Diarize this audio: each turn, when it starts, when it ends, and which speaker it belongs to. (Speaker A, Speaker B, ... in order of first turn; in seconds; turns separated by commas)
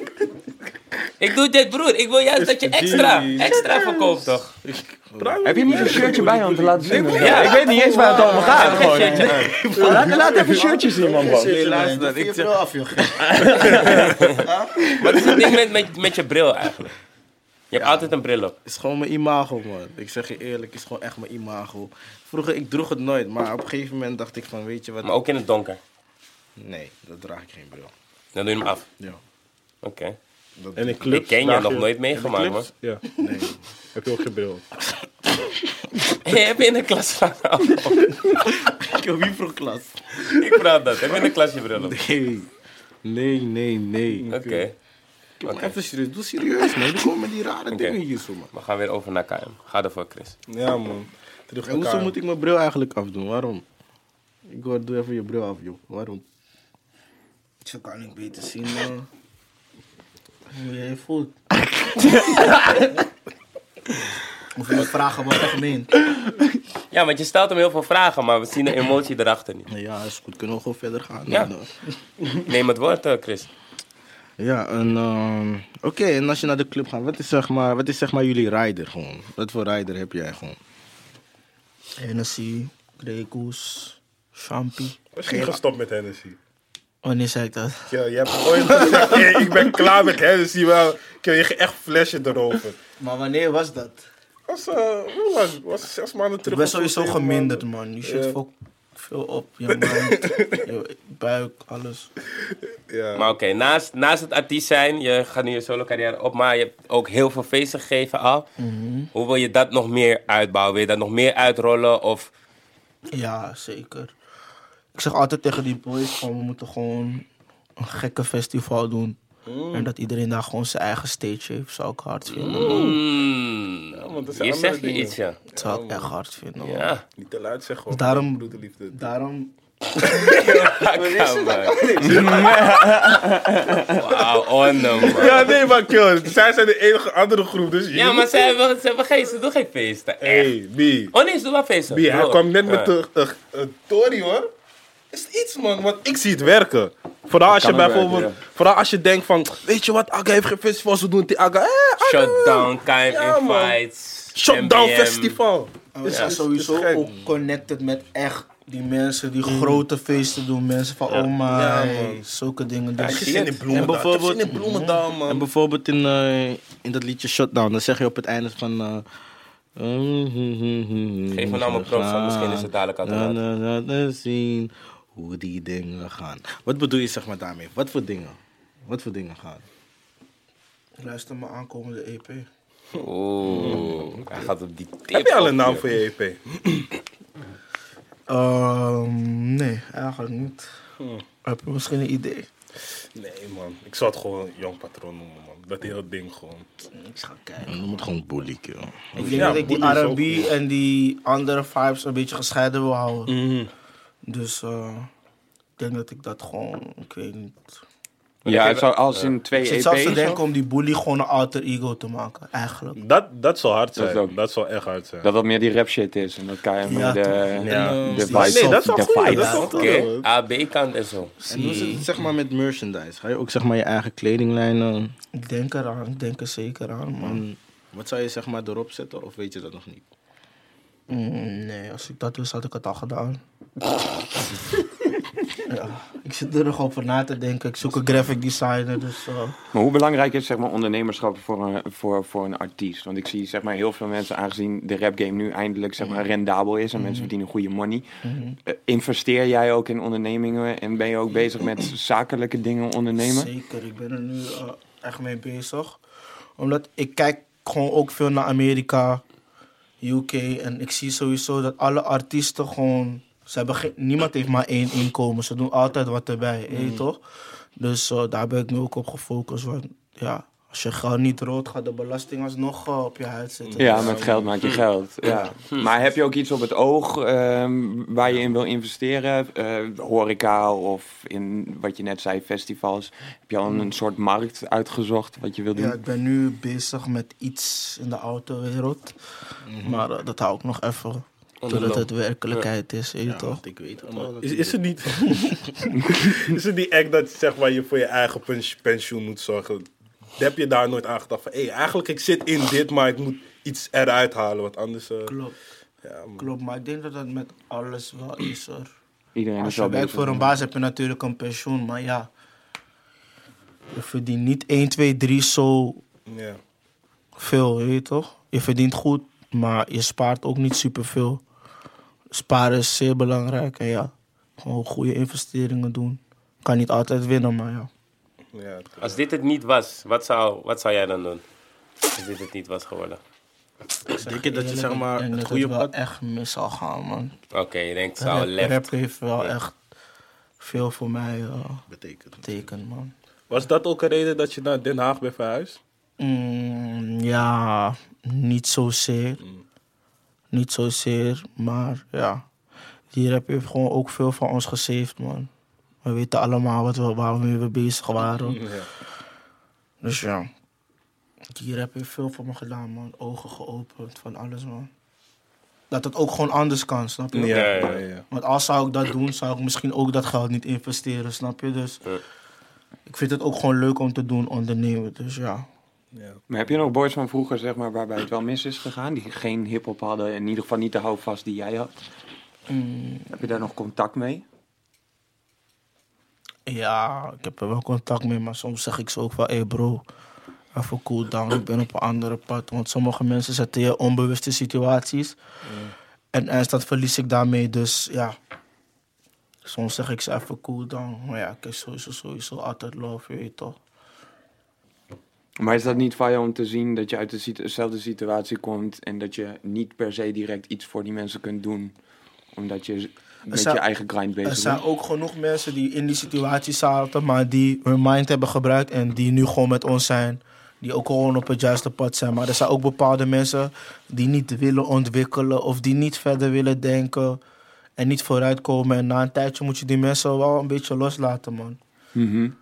Speaker A: 1.2-4.5, Speaker B: 2.4-3.7, Speaker C: 4.7-14.1, Speaker B: 5.2-7.6, Speaker D: 5.4-11.7, Speaker A: 7.1-7.6, Speaker E: 7.5-10.1, Speaker A: 8.2-9.6, Speaker B: 9.7-10.9, Speaker E: 11.0-15.4, Speaker B: 13.5-14.1, Speaker A: 14.0-14.4, Speaker A: 15.0-16.9, Speaker A: 17.7-18.6, Speaker C: 17.8-18.1, Speaker C: 18.6-25.1, Speaker A: 25.0-25.8, Speaker C: 26.6-27.9, Speaker A: 28.4-28.9, Speaker A: 29.8-30.2, Speaker C: 30.6-31.1, Speaker B: 30.8-31.9, Speaker A: 31.1-32.7, Speaker C: 32.1-32.7, Speaker B: 32.8-33.0, Speaker C: 33.2-33.6, Speaker B: 34.0-34.6, Speaker A: 36.2-38.3, Speaker C: 38.3-40.4, Speaker A: 40.3-42.0, Speaker C: 41.8-42.5, Speaker C: 43.0-44.3, Speaker B: 44.2-44.7, Speaker A: 44.3-44.8, Speaker A: 45.4-45.8, Speaker C: 45.4-48.5, Speaker A: 47.7-48.0, Speaker A: 48.5-50.4, Speaker B: 50.5-52.1, Speaker C: 51.6-53.6, Speaker C: 54.5-56.2, Speaker E: 57.6-59.1, Speaker E: 60.5-61.4, Speaker E: 64.5-65.9, Speaker A: 66.9-69.7, Speaker C: 69.7-71.7, Speaker A: 72.3-73.5, Speaker C: 74.4-80.6, Speaker E: 82.0-85.6, Speaker B: 85.1-86.4, Speaker E: 87.0-88.0, Speaker B: 87.9-92.8, Speaker E: 88.6-89.6, Speaker E: 93.0-94.0, Speaker B: 94.5-98.4, Speaker E: 96.5-102.1, Speaker B: 99.8-100.7, Speaker B: 102.9-103.3, Speaker A: 103.2-108.5, Speaker E: 108.6-109.1, Speaker A: 109.1-112.3, Speaker E: 113.1-114.1, Speaker E: 115.0-117.3, Speaker E: 117.8-119.2, Speaker B: 119.5-119.9, Speaker E: 119.7-123.0, Speaker B: 122.3-123.0, Speaker A: 122.4-125.4, Speaker B: 123.9-126.1, Speaker E: 125.6-127.0, Speaker A: 126.6-127.0, Speaker B: 127.2-129.1, Speaker E: 127.9-132.9, Speaker A: 130.0-132.3, Speaker D: 132.0-133.9, Speaker A: 133.9-135.6, Speaker B: 135.0-138.5, Speaker A: 137.9-140.5, Speaker B: 140.2-141.2, Speaker A: 141.1-142.9, Speaker B: 141.9-144.5, Speaker B: 145.1-153.8, Speaker D: 147.5-148.4, Speaker A: 152.0-155.4, Speaker B: 154.3-157.1, Speaker E: 155.9-163.9, Speaker A: 156.1-156.3, Speaker C: 159.4-159.8, Speaker B: 161.4-162.3, Speaker A: 163.0-163.7, Speaker B: 163.0-165.5, Speaker C: 163.7-164.6, Speaker E: 164.5-165.0, Speaker C: 165.3-169.1, Speaker C: 169.8-179.6, Speaker A: 171.3-173.4, Speaker E: 181.0-182.5, Speaker A: 182.9-186.0, Speaker B: 183.5-184.2, Speaker B: 185.1-186.9, Speaker E: 188.3-190.7, Speaker B: 191.0-191.2, Speaker E: 191.4-192.5, Speaker B: 193.2-196.8, Speaker E: 196.9-197.9, Speaker C: 197.6-199.8, Speaker E: 199.2-203.4, Speaker B: 199.2-200.5, Speaker B: 203.3-203.7, Speaker E: 204.3-205.1, Speaker E: 205.8-207.8, Speaker A: 208.4-209.3, Speaker D: 208.5-210.4, Speaker E: 209.5-213.0, Speaker B: 213.0-215.3, Speaker D: 214.0-214.3, Speaker D: 215.2-219.8, Speaker E: 216.8-217.4, Speaker B: 217.6-220.3, Speaker C: 217.7-218.5, Speaker E: 218.2-220.1, Speaker A: 219.6-222.0, Speaker E: 221.4-222.1, Speaker C: 221.5-225.1, Speaker E: 225.3-227.4, Speaker C: 227.2-230.1, Speaker E: 231.1-233.4, Speaker E: 235.7-239.6, Speaker D: 239.7-248.1, Speaker E: 247.0-247.3, Speaker E: 248.2-248.6, Speaker D: 248.7-253.5, Speaker E: 253.2-256.0, Speaker E: 256.6-259.2, Speaker E: 260.0-267.2, Speaker B: 266.7-267.0, Speaker E: 267.8-274.3, Speaker B: 273.6-274.8, Speaker D: 273.8-286.0, Speaker E: 275.2-275.6, Speaker E: 285.8-289.1, Speaker C: 289.7-290.1, Speaker E: 289.8-293.6, Speaker A: 291.6-292.7, Speaker C: 293.2-294.8, Speaker B: 294.1-295.4, Speaker E: 295.2-295.6, Speaker B: 296.1-299.9, Speaker B: 300.4-305.3, Speaker E: 305.3-305.6, Speaker B: 306.0-306.5, Speaker E: 306.4-308.9, Speaker D: 309.4-310.6, Speaker E: 309.6-312.3, Speaker E: 313.9-316.0, Speaker B: 316.3-316.6, Speaker E: 317.4-321.4, Speaker E: 322.3-327.9, Speaker B: 328.5-329.2, Speaker A: 329.0-331.4, Speaker A: 332.1-333.2, Speaker E: 334.1-337.4, Speaker C: 334.2-335.9, Speaker A: 337.5-339.5, Speaker E: 338.2-339.8, Speaker E: 340.6-341.9, Speaker C: 341.9-342.6, Speaker E: 342.4-343.1, Speaker B: 343.5-345.8, Speaker E: 346.2-349.4, Speaker E: 350.5-352.4, Speaker E: 353.1-355.5, Speaker E: 356.0-358.6, Speaker B: 358.4-358.9, Speaker E: 360.0-360.5, Speaker E: 361.5-364.9, Speaker E: 365.9-372.0, Speaker B: 367.3-368.3, Speaker A: 367.5-368.0, Speaker E: 373.1-375.7, Speaker B: 376.1-376.4, Speaker D: 376.5-381.9, Speaker E: 382.7-383.4, Speaker D: 383.3-384.4, Speaker E: 386.7-390.1, Speaker E: 390.7-395.4, Speaker E: 396.3-398.4, Speaker E: 399.6-403.8, Speaker D: 405.6-411.9, Speaker D: 412.6-414.8, Speaker E: 413.5-413.8, Speaker E: 414.4-427.4, Speaker E: 428.0-431.8, Speaker D: 432.1-432.6